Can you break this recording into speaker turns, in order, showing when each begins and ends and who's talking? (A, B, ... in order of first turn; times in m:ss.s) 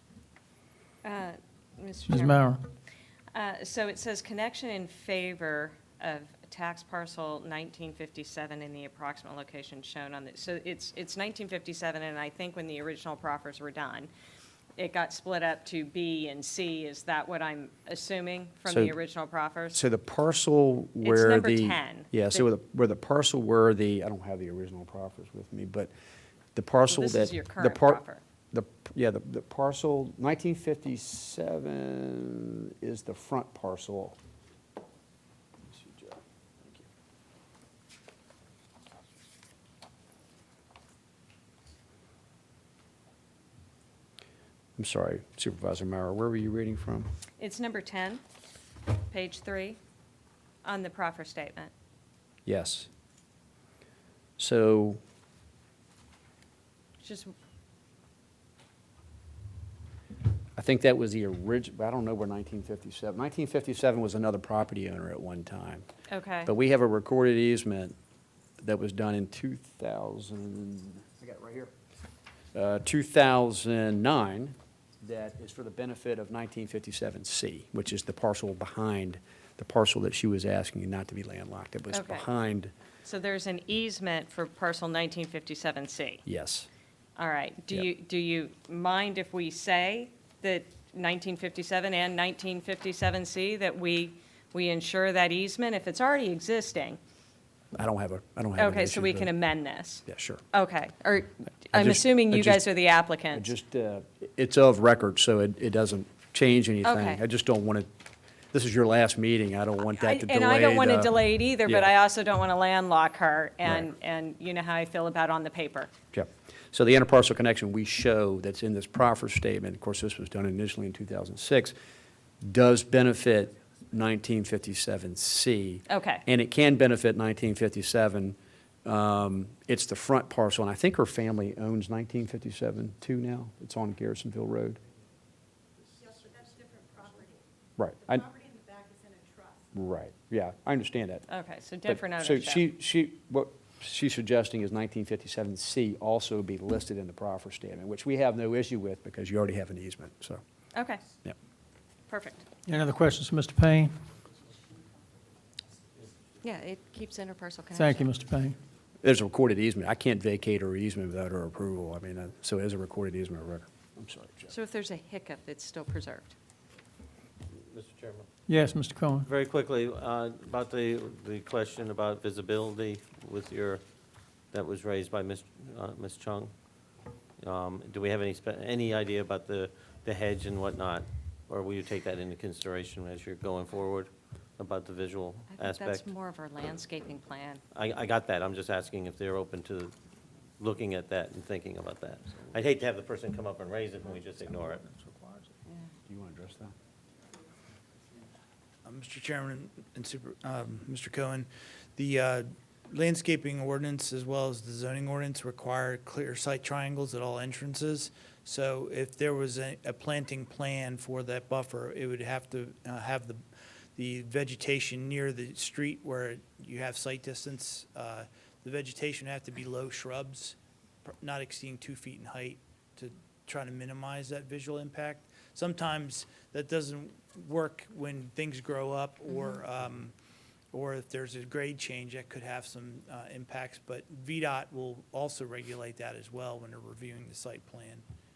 0:01.0-0:02.6 A
0:02.1-0:02.7 B
0:03.3-0:14.1 A
0:14.8-0:19.8 A
0:18.7-0:19.0 C
0:19.7-0:25.9 C
0:21.0-0:22.5 A
0:26.6-0:34.2 C
0:26.9-0:28.2 A
0:35.7-0:36.9 C
0:44.8-0:47.1 C
0:47.4-0:48.2 A
0:49.1-0:49.8 A
0:50.6-0:51.7 A
0:52.5-0:52.9 C
0:54.4-0:55.0 C
0:57.0-0:57.3 A
1:00.6-1:05.9 C
1:06.1-1:06.5 A
1:06.5-1:08.0 C
1:08.6-1:11.7 C
1:12.5-1:22.7 C
1:21.9-1:22.3 A
1:23.0-1:26.2 A
1:26.3-1:26.7 C
1:27.2-1:37.0 A
1:37.8-1:39.3 C
1:38.6-1:43.5 A
1:40.1-1:40.4 C
1:41.7-1:42.6 C
1:43.3-1:47.9 C
1:46.8-1:47.2 A
1:48.5-1:51.9 C
1:49.9-1:55.9 A
1:56.1-2:01.8 C
2:02.4-2:14.8 C
2:05.9-2:06.2 A
2:16.1-2:17.4 D
2:17.8-2:18.3 C
2:18.4-2:19.3 D
2:19.7-2:21.3 C
2:21.3-2:22.6 A
2:21.8-2:30.4 C
2:30.7-2:31.0 A
2:32.1-2:32.4 A
2:32.7-2:34.0 B
2:36.4-2:38.0 A
2:37.7-2:38.6 B
2:39.0-2:44.5 C
2:44.5-2:46.4 A
2:47.5-2:48.3 E
2:48.5-2:49.3 B
2:49.2-2:53.8 E
2:54.5-2:56.5 E
2:57.4-3:06.0 E
3:05.5-3:07.6 A
3:07.7-3:09.9 E
3:10.6-3:15.0 E
3:15.0-3:15.4 B
3:16.1-3:16.7 C
3:18.8-3:33.4 F
3:34.0-3:50.1 F
3:49.3-3:49.6 A
3:50.7-3:58.0 F